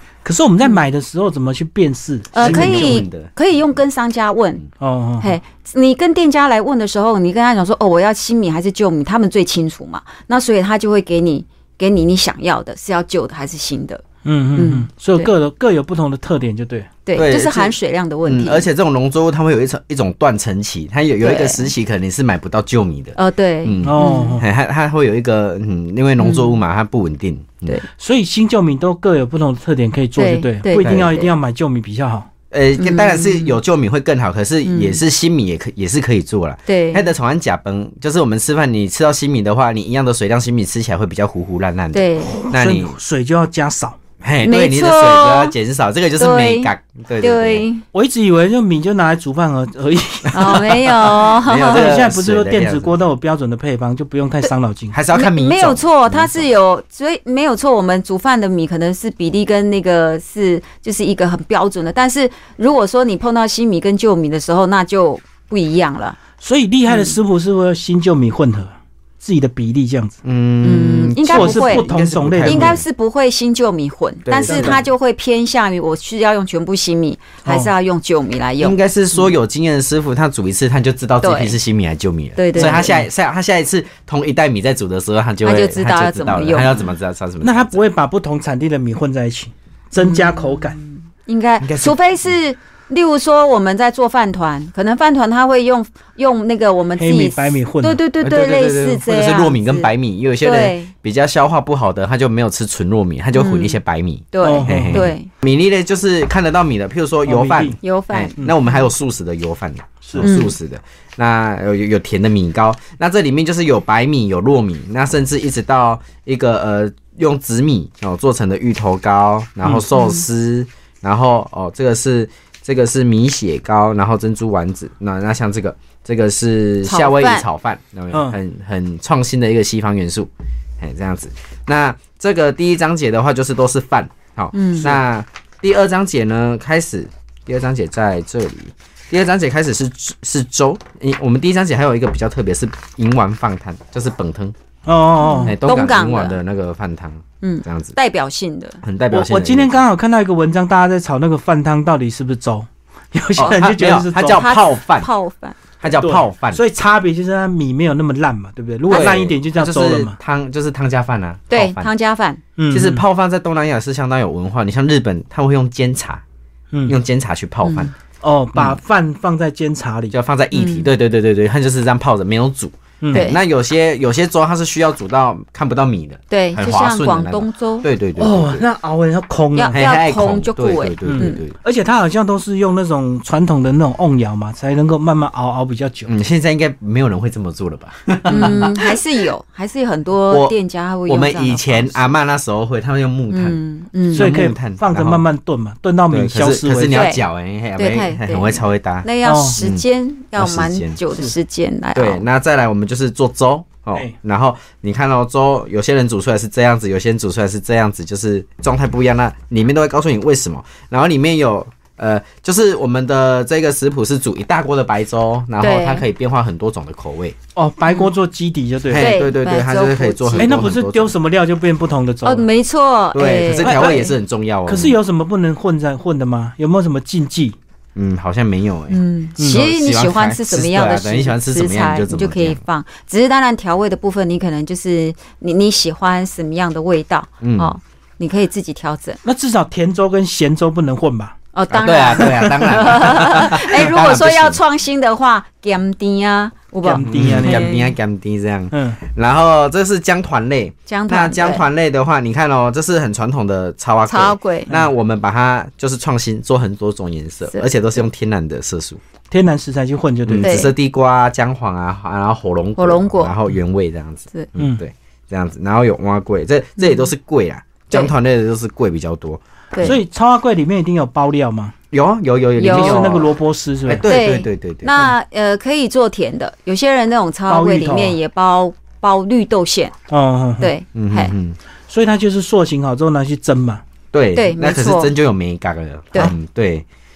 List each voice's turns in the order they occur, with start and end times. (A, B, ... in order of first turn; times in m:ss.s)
0:00.2-0:03.0 A
0:02.3-0:04.6 B
0:02.4-0:03.3 C
0:04.8-0:05.3 A
0:05.2-0:14.0 B
0:14.2-0:16.9 A
0:14.6-0:15.3 B
0:17.0-0:18.7 B
0:17.1-0:27.8 C
0:21.2-0:21.7 B
0:23.1-0:24.4 B
0:23.8-0:24.4 A
0:26.2-0:26.6 B
0:28.0-0:32.3 A
0:30.2-0:31.3 B
0:30.8-0:31.1 C
0:32.5-0:43.0 C
0:32.8-0:33.6 B
0:34.6-0:35.0 B
0:36.7-0:37.1 B
0:41.9-0:42.4 B
0:42.3-0:44.0 A
0:44.2-0:47.6 C
0:44.4-0:45.5 B
0:46.2-0:47.8 B
0:47.9-0:55.0 A
0:50.3-0:51.9 B
0:50.4-0:53.0 C
0:54.9-0:56.5 C
0:55.1-1:06.2 B
1:06.4-1:10.2 A
1:06.9-1:07.2 B
1:10.2-1:12.8 C
1:10.6-1:11.8 B
1:11.3-1:12.8 A
1:12.4-1:19.3 B
1:14.2-1:14.8 C
1:14.4-1:14.8 A
1:17.4-1:17.7 A
1:18.6-1:27.8 C
1:21.2-1:21.6 B
1:22.4-1:23.0 B
1:22.6-1:23.0 A
1:25.4-1:26.8 B
1:27.4-1:30.8 A
1:30.0-1:40.9 B
1:31.6-1:32.0 C
1:37.0-1:38.0 A
1:38.2-2:24.5 C
1:43.3-1:43.8 B
1:44.3-1:45.3 B
1:44.4-1:45.1 A
1:47.2-1:47.8 A
1:47.8-1:48.7 B
1:50.0-1:50.3 A
1:50.2-1:50.5 B
1:59.9-2:00.2 B
2:06.8-2:07.4 B
2:08.1-2:08.4 A
2:14.5-2:14.9 B
2:24.8-2:25.6 A
2:25.2-2:26.4 B
2:25.4-2:27.9 C
2:27.4-2:28.8 B
2:28.8-2:29.8 C
2:29.1-2:34.4 A
2:33.4-2:35.1 C
2:34.3-2:35.6 B
2:35.8-2:36.6 C
2:36.0-2:40.2 A
2:38.9-2:39.1 B
2:38.9-2:41.9 C
2:41.5-2:42.4 B
2:42.6-2:43.0 A
2:42.7-2:46.2 C
2:46.8-2:47.9 C
2:47.6-2:47.9 B
2:48.2-2:50.2 A
2:48.5-2:48.8 C
2:50.1-2:58.6 C
2:50.5-2:50.9 B
2:53.0-2:53.3 A
2:53.1-2:53.4 B
2:56.3-2:57.9 B
2:58.2-2:59.8 A
2:59.5-3:01.4 B
2:59.7-3:01.5 C
3:01.0-3:06.1 A
3:06.0-3:08.9 C
3:08.3-3:12.0 B
3:10.3-3:10.5 C
3:11.1-3:13.6 C
3:13.3-3:14.3 B
3:14.1-3:15.2 C
3:14.1-3:17.0 A
3:16.1-3:19.8 C
3:16.9-3:17.2 B
3:17.8-3:22.2 B
3:19.2-3:19.6 A
3:20.4-3:21.0 C
3:21.9-3:37.4 C
3:35.6-3:36.0 B
3:37.6-3:39.1 A
3:38.9-3:41.1 C
3:39.0-3:40.7 B
3:40.4-3:42.5 A
3:42.2-3:44.1 B
3:43.1-3:45.0 C
3:43.6-3:44.0 A
3:44.6-3:47.6 A
3:47.9-3:52.6 C
3:48.9-3:59.2 B
3:57.4-3:57.7 C
3:59.2-4:01.4 A
4:01.5-4:07.9 B
4:01.7-4:04.6 C
4:02.2-4:02.5 A
4:06.8-4:07.7 A
4:07.1-4:19.0 C
4:08.7-4:09.0 A
4:10.9-4:11.6 B
4:14.0-4:14.7 B
4:19.3-4:20.7 A
4:20.2-4:30.0 C
4:20.4-4:20.7 B
4:22.8-4:23.3 B
4:26.8-4:27.1 B
4:29.7-4:30.0 B
4:29.8-4:31.7 A
4:31.9-4:33.3 C
4:32.6-4:33.1 B
4:32.6-4:34.1 A
4:33.8-4:35.0 C
4:34.1-4:39.9 B
4:37.5-4:38.2 A
4:40.1-4:40.7 A
4:40.6-4:41.3 B
4:40.9-4:41.6 C
4:41.9-4:43.8 A
4:44.1-4:46.8 C
4:44.3-4:45.1 B